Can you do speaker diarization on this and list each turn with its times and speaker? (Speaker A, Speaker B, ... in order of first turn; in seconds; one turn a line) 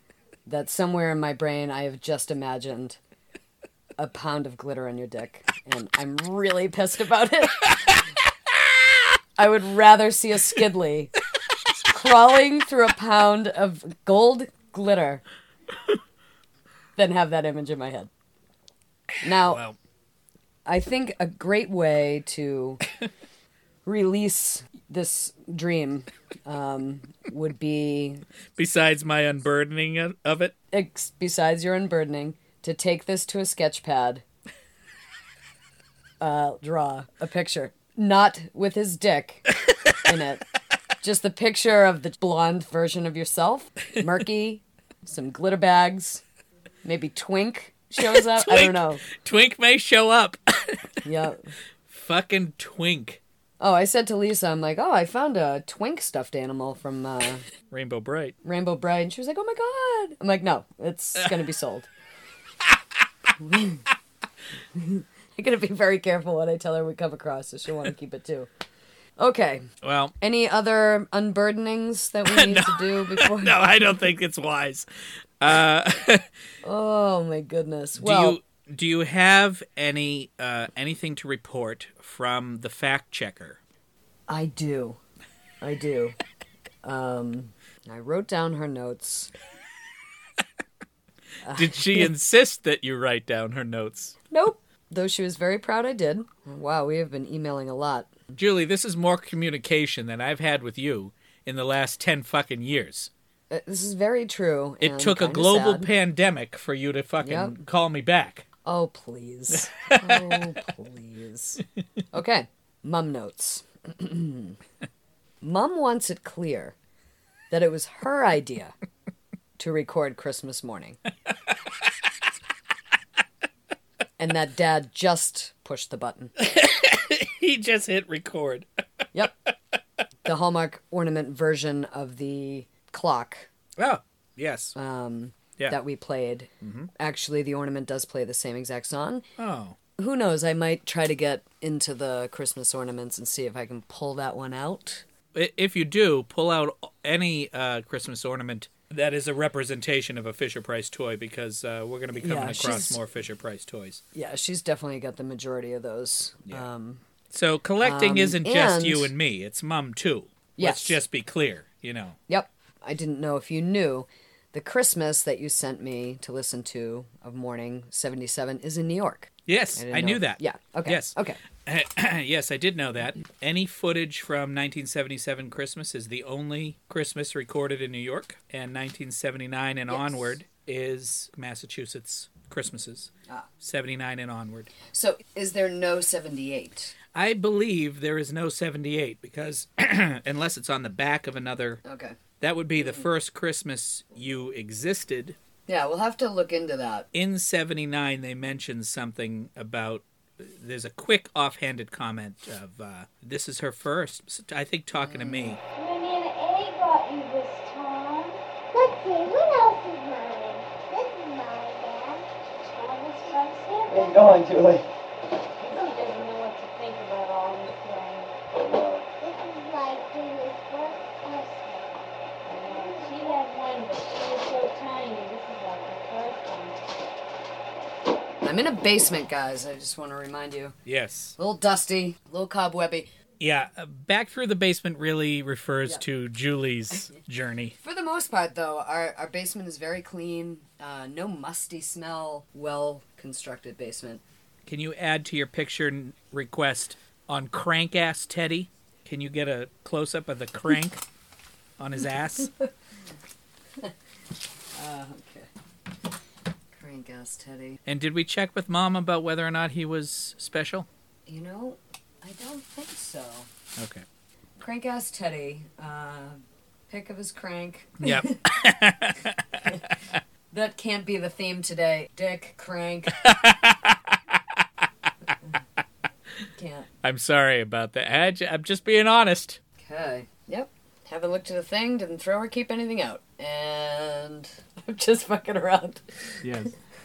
Speaker A: 0.5-3.0
Speaker A: 4.0-8.0
Speaker A: 9.4-11.1
Speaker A: 11.9-15.2
Speaker A: 17.0-18.1
Speaker A: 19.2-19.6
Speaker B: 19.4-19.8
Speaker A: 20.6-22.8
Speaker A: 23.9-28.2
Speaker B: 28.6-30.5
Speaker A: 30.7-34.2
Speaker A: 36.2-40.4
Speaker A: 41.0-46.2
Speaker A: 46.8-49.0
Speaker B: 48.1-50.9
Speaker A: 51.0-51.5
Speaker B: 51.9-53.2
Speaker A: 53.6-57.5
Speaker B: 57.7-58.4
Speaker A: 58.4-61.9
Speaker A: 63.4-63.9
Speaker A: 64.8-68.5
Speaker A: 69.2-69.7
Speaker B: 69.8-70.1
Speaker A: 70.2-73.6
Speaker B: 72.3-74.9
Speaker B: 75.4-76.3
Speaker A: 76.6-78.4
Speaker B: 78.0-83.6
Speaker A: 84.3-85.0
Speaker A: 85.6-86.2
Speaker A: 86.8-89.3
Speaker A: 91.4-92.1
Speaker B: 91.5-94.2
Speaker A: 94.3-98.1
Speaker B: 98.3-103.1
Speaker A: 103.5-105.9
Speaker B: 104.8-108.5
Speaker A: 107.2-107.6
Speaker A: 108.7-114.6
Speaker B: 109.5-110.5
Speaker A: 115.4-116.8
Speaker A: 117.5-118.7
Speaker A: 119.6-121.0
Speaker A: 124.2-126.3
Speaker B: 126.4-128.7
Speaker A: 130.2-133.5
Speaker B: 133.8-134.8
Speaker A: 134.8-139.2
Speaker B: 136.6-136.9
Speaker B: 139.4-139.8
Speaker A: 140.0-145.1
Speaker B: 145.3-154.0
Speaker A: 152.2-153.0
Speaker A: 154.1-157.0
Speaker B: 157.3-162.2
Speaker A: 157.8-159.1
Speaker A: 160.6-161.0
Speaker A: 162.3-171.4
Speaker B: 169.5-184.7
Speaker A: 179.9-180.3
Speaker A: 184.9-186.9
Speaker B: 187.1-191.8
Speaker A: 191.8-192.2
Speaker B: 192.4-195.4
Speaker A: 192.8-193.1
Speaker A: 195.7-197.1
Speaker B: 197.1-205.6
Speaker A: 204.9-205.6
Speaker C: 205.7-214.4
Speaker A: 213.9-214.9
Speaker C: 215.6-226.9
Speaker A: 228.4-230.8
Speaker B: 230.9-231.4
Speaker A: 231.4-233.1
Speaker B: 233.4-237.8
Speaker A: 237.8-244.2
Speaker B: 244.7-251.0
Speaker B: 251.8-252.5
Speaker A: 254.7-255.5
Speaker A: 256.7-257.8
Speaker B: 257.9-260.9
Speaker A: 261.3-263.5
Speaker B: 263.8-264.1
Speaker A: 264.6-268.4
Speaker B: 268.0-270.2
Speaker A: 270.5-273.2
Speaker B: 273.1-274.6
Speaker A: 276.6-276.9
Speaker B: 277.0-279.6
Speaker A: 279.8-286.4
Speaker B: 286.4-286.8